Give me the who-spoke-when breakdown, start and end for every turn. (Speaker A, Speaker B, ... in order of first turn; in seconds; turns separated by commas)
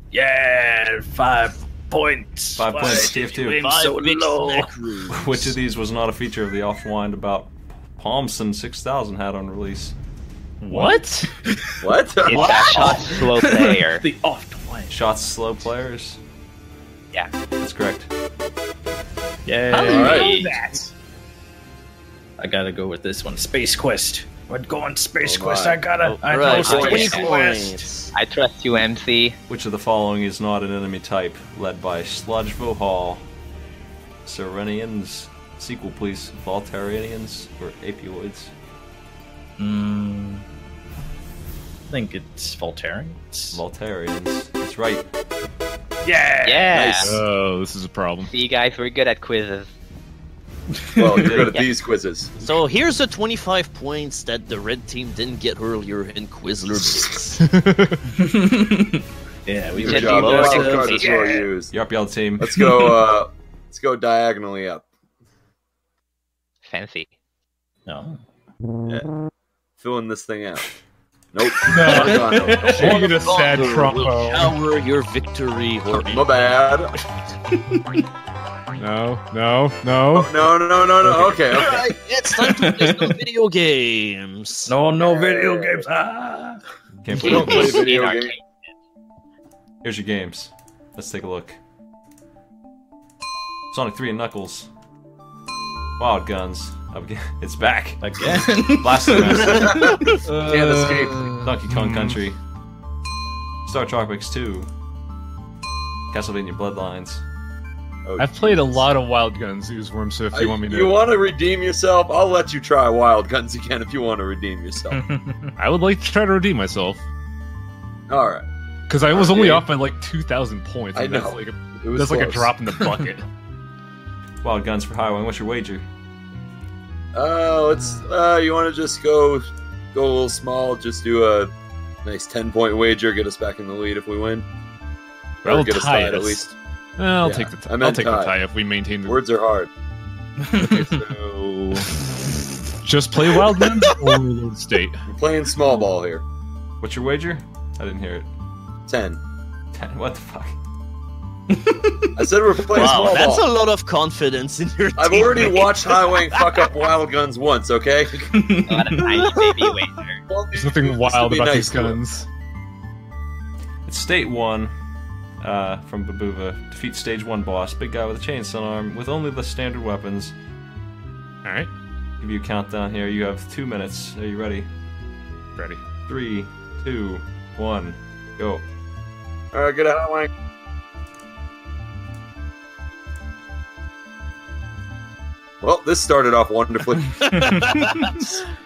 Speaker A: 0.1-4.7, Speaker B: 2.6-3.7, Speaker C: 2.7-5.2, Speaker B: 5.1-9.9, Speaker A: 10.6-15.1, Speaker D: 10.7-11.3, Speaker E: 11.8-12.7, Speaker F: 12.2-14.0, Speaker B: 14.9-16.2, Speaker B: 17.6-18.1, Speaker A: 19.5-20.9, Speaker D: 19.7-20.8, Speaker F: 19.9-20.4, Speaker E: 19.9-20.3, Speaker A: 22.4-27.9, Speaker E: 25.2-25.8, Speaker C: 26.1-28.1, Speaker E: 26.4-27.4, Speaker F: 26.6-27.3, Speaker F: 28.1-29.4, Speaker B: 29.5-33.3, Speaker B: 34.2-38.5, Speaker A: 39.6-40.5, Speaker A: 41.9-43.6, Speaker B: 43.5-45.0, Speaker A: 46.0-47.0, Speaker F: 46.4-47.2, Speaker E: 46.8-47.2, Speaker D: 47.0-48.3, Speaker F: 48.2-49.7, Speaker E: 51.0-52.3, Speaker A: 51.0-51.3, Speaker B: 51.1-51.6, Speaker C: 52.4-57.4, Speaker D: 57.4-58.0, Speaker A: 58.1-61.5, Speaker E: 59.7-61.8, Speaker F: 59.8-61.5, Speaker B: 61.7-62.8, Speaker E: 62.4-64.9, Speaker A: 62.8-63.0, Speaker F: 66.7-67.1, Speaker A: 67.9-68.2, Speaker E: 69.8-70.7, Speaker E: 71.3-73.1, Speaker D: 71.6-74.5, Speaker A: 71.7-73.0, Speaker C: 72.7-76.4, Speaker E: 75.9-76.9, Speaker A: 77.5-78.0, Speaker D: 78.8-80.4, Speaker E: 80.1-81.9, Speaker A: 81.1-81.4, Speaker C: 81.5-84.7, Speaker A: 82.3-83.2, Speaker A: 84.7-86.6, Speaker E: 85.0-85.8, Speaker B: 87.0-87.9, Speaker A: 87.1-87.8, Speaker E: 87.2-88.4, Speaker F: 87.2-88.4, Speaker B: 89.8-91.6, Speaker B: 93.7-94.7, Speaker B: 96.0-100.0, Speaker A: 98.0-101.1, Speaker E: 99.2-101.3, Speaker C: 99.6-100.1, Speaker D: 100.2-102.2, Speaker B: 101.4-102.4, Speaker B: 103.7-104.7, Speaker B: 106.1-107.2, Speaker E: 108.1-108.9, Speaker D: 108.2-111.0, Speaker E: 110.3-115.0, Speaker A: 114.9-115.5, Speaker D: 115.6-117.0, Speaker E: 118.1-118.5, Speaker D: 118.9-123.3, Speaker E: 119.1-119.7, Speaker E: 121.0-122.5, Speaker B: 124.4-125.8, Speaker E: 127.1-131.5, Speaker E: 132.0-134.5, Speaker E: 135.4-136.5, Speaker D: 135.4-139.2, Speaker E: 137.2-138.4, Speaker E: 139.1-139.7, Speaker A: 140.4-140.9, Speaker E: 140.6-141.5, Speaker D: 141.3-141.9, Speaker D: 142.8-145.0, Speaker E: 145.1-146.2, Speaker B: 146.8-148.3, Speaker E: 148.9-149.2, Speaker B: 149.7-150.6, Speaker A: 151.5-152.3, Speaker E: 152.2-153.5, Speaker C: 152.7-156.7, Speaker E: 155.0-158.5, Speaker A: 158.3-159.2, Speaker F: 158.7-160.2, Speaker E: 160.3-162.0, Speaker D: 160.6-162.3, Speaker B: 163.9-164.7, Speaker B: 165.4-170.3, Speaker D: 171.4-171.7, Speaker B: 172.2-174.7, Speaker D: 175.6-175.8, Speaker B: 176.1-178.6, Speaker E: 179.5-180.3, Speaker E: 185.6-187.6, Speaker A: 187.3-188.2, Speaker C: 187.3-188.3